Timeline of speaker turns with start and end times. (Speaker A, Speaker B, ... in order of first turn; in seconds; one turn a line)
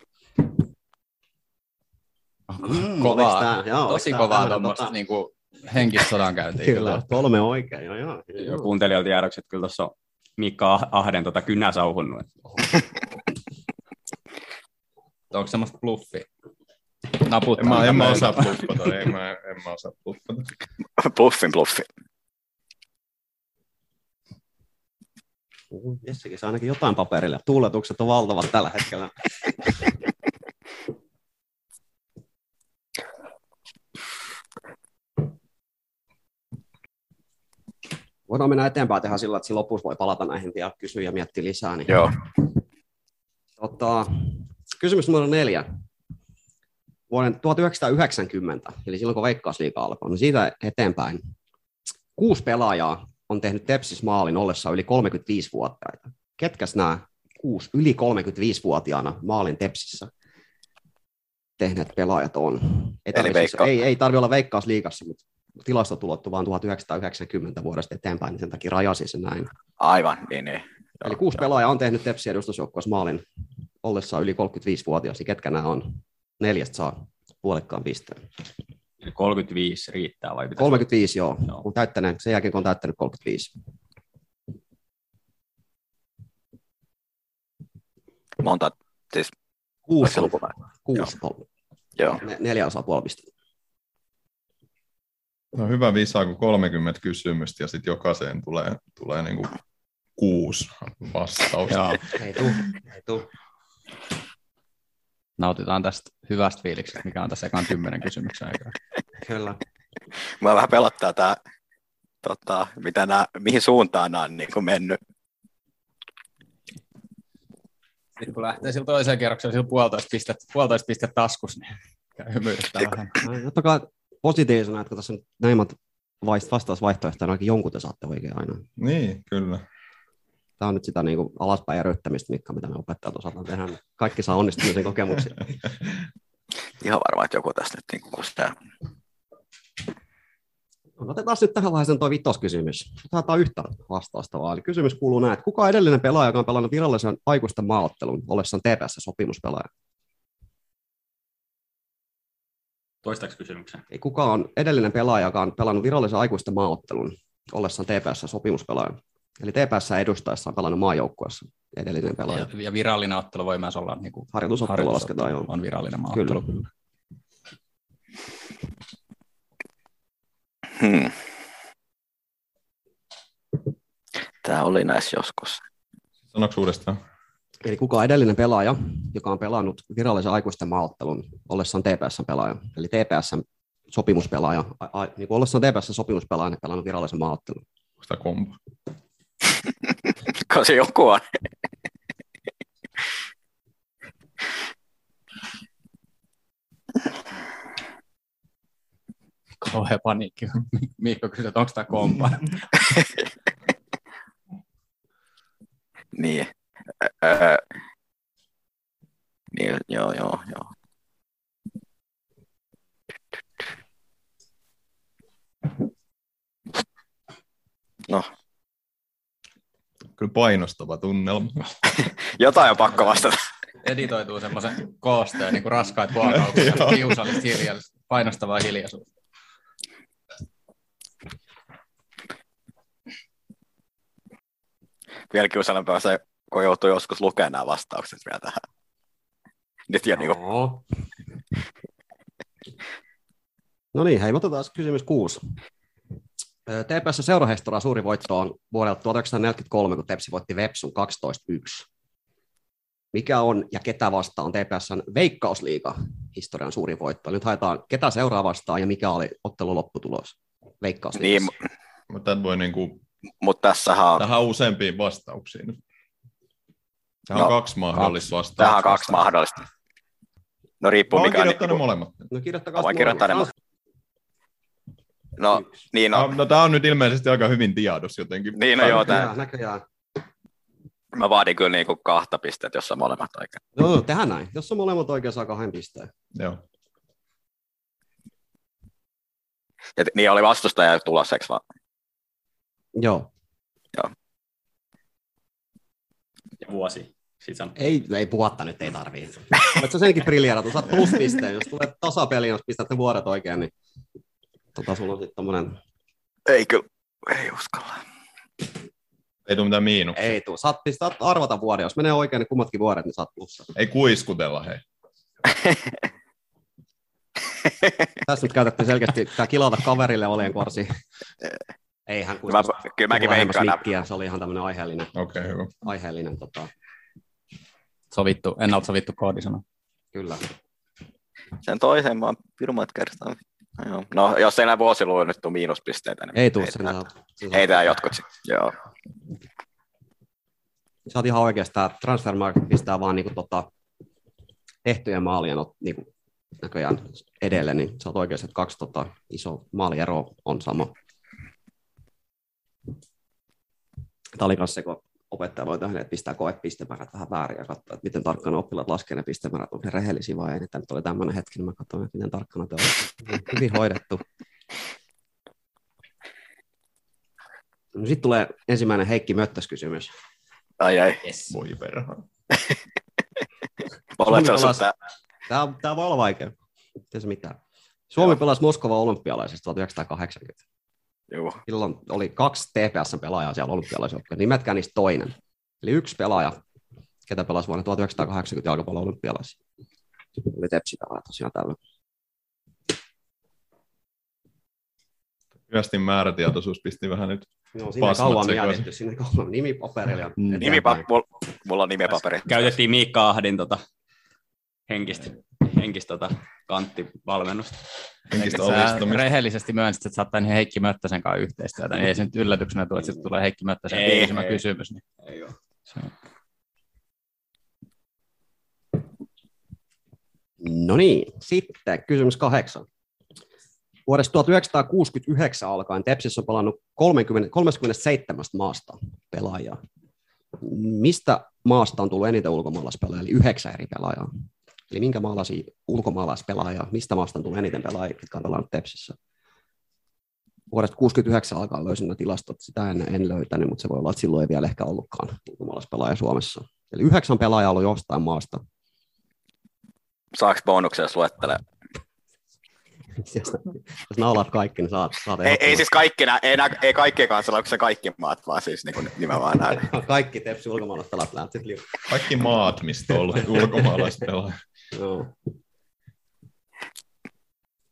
Speaker A: 2.5-7.0
Speaker B: 2.6-4.9
Speaker B: 6.6-8.6
Speaker C: 8.4-12.3
Speaker A: 15.3-16.3
Speaker A: 17.1-18.6
Speaker D: 17.6-20.5
Speaker E: 21.0-21.9
Speaker B: 25.7-29.1
Speaker B: 38.3-42.1
Speaker B: 43.6-45.7
Speaker B: 47.1-51.2
Speaker B: 52.2-60.1
Speaker B: 61.6-69.5
Speaker E: 63.1-63.7
Speaker E: 69.8-71.1
Speaker B: 71.0-73.2
Speaker B: 73.8-78.2
Speaker C: 79.0-80.9
Speaker B: 80.6-83.5
Speaker E: 88.4-89.3
Speaker B: 89.9-91.5
Speaker E: 90.0-90.5
Speaker B: 92.2-93.3
Speaker D: 95.5-99.6
Speaker D: 100.2-102.0
Speaker A: 101.7-102.0
Speaker B: 102.2-103.3
Speaker A: 105.4-108.8
Speaker B: 109.2-109.6
Speaker E: 110.4-111.4
Speaker E: 112.2-115.0
Speaker A: 118.2-123.3
Speaker B: 123.2-128.7
Speaker D: 128.8-129.6
Speaker B: 130.6-135.5
Speaker E: 136.8-138.6
Speaker B: 141.0-149.7
Speaker C: 153.0-153.8
Speaker B: 153.9-162.5
Speaker A: 162.3-166.6
Speaker B: 164.3-165.5
Speaker B: 166.1-166.4
Speaker E: 170.8-171.1
Speaker E: 174.4-175.6
Speaker D: 176.3-177.0
Speaker B: 177.6-187.6
Speaker D: 188.0-188.6
Speaker E: 190.3-191.3
Speaker A: 199.6-202.8
Speaker E: 206.1-206.5
Speaker E: 207.0-207.6
Speaker E: 209.5-210.7
Speaker D: 220.2-221.7
Speaker E: 222.0-223.4
Speaker A: 223.8-229.1
Speaker D: 226.3-227.2
Speaker E: 235.3-238.6
Speaker E: 239.9-240.4
Speaker B: 240.2-240.8
Speaker B: 243.9-245.5
Speaker B: 246.7-251.9
Speaker B: 253.1-261.5
Speaker E: 261.2-261.5
Speaker D: 262.1-263.0
Speaker E: 263.4-264.2
Speaker D: 264.2-265.8
Speaker D: 267.3-269.3
Speaker E: 268.6-269.7
Speaker E: 270.8-271.8
Speaker D: 271.1-272.3
Speaker B: 272.3-273.5
Speaker E: 272.8-273.5
Speaker E: 275.4-276.3
Speaker D: 276.1-279.2
Speaker E: 278.6-279.3
Speaker B: 278.8-279.8
Speaker E: 281.1-283.6
Speaker B: 283.8-286.1
Speaker D: 286.3-286.6
Speaker E: 290.0-291.6
Speaker B: 293.0-293.3
Speaker C: 296.6-297.8
Speaker B: 297.8-303.7
Speaker B: 304.8-305.8
Speaker E: 306.5-308.0
Speaker D: 309.5-310.4
Speaker B: 310.1-313.7
Speaker D: 313.8-314.8
Speaker E: 315.5-315.8
Speaker B: 318.2-321.0
Speaker B: 322.1-325.1
Speaker E: 322.5-323.8
Speaker D: 325.1-325.7
Speaker B: 325.8-326.7
Speaker A: 328.1-329.6
Speaker B: 330.1-330.4
Speaker E: 331.6-336.9
Speaker B: 336.4-337.8
Speaker E: 337.5-338.8
Speaker B: 341.1-343.7
Speaker B: 344.9-346.1
Speaker B: 346.6-350.9
Speaker B: 354.4-364.2
Speaker B: 367.9-370.1
Speaker E: 370.8-371.2
Speaker A: 371.2-371.5
Speaker D: 371.5-372.2
Speaker E: 374.2-374.9
Speaker B: 374.2-374.9
Speaker B: 375.5-376.5
Speaker B: 377.1-377.6
Speaker B: 378.1-380.6
Speaker E: 381.3-381.6
Speaker B: 381.7-386.6
Speaker B: 387.3-389.6
Speaker B: 390.4-391.8
Speaker D: 395.7-397.5
Speaker B: 397.8-401.1
Speaker D: 398.0-398.9
Speaker A: 400.4-400.8
Speaker E: 400.6-402.7
Speaker C: 402.5-403.8
Speaker C: 404.9-407.8
Speaker D: 408.3-409.3
Speaker A: 408.5-415.0
Speaker C: 413.9-414.6
Speaker C: 415.2-415.5
Speaker B: 420.6-422.9
Speaker B: 424.1-429.8
Speaker B: 430.6-434.3
Speaker B: 434.9-439.2
Speaker B: 440.7-448.6
Speaker E: 450.3-451.6
Speaker B: 453.2-455.9
Speaker E: 455.4-459.9
Speaker B: 459.7-462.0
Speaker D: 462.1-464.6
Speaker B: 464.9-465.3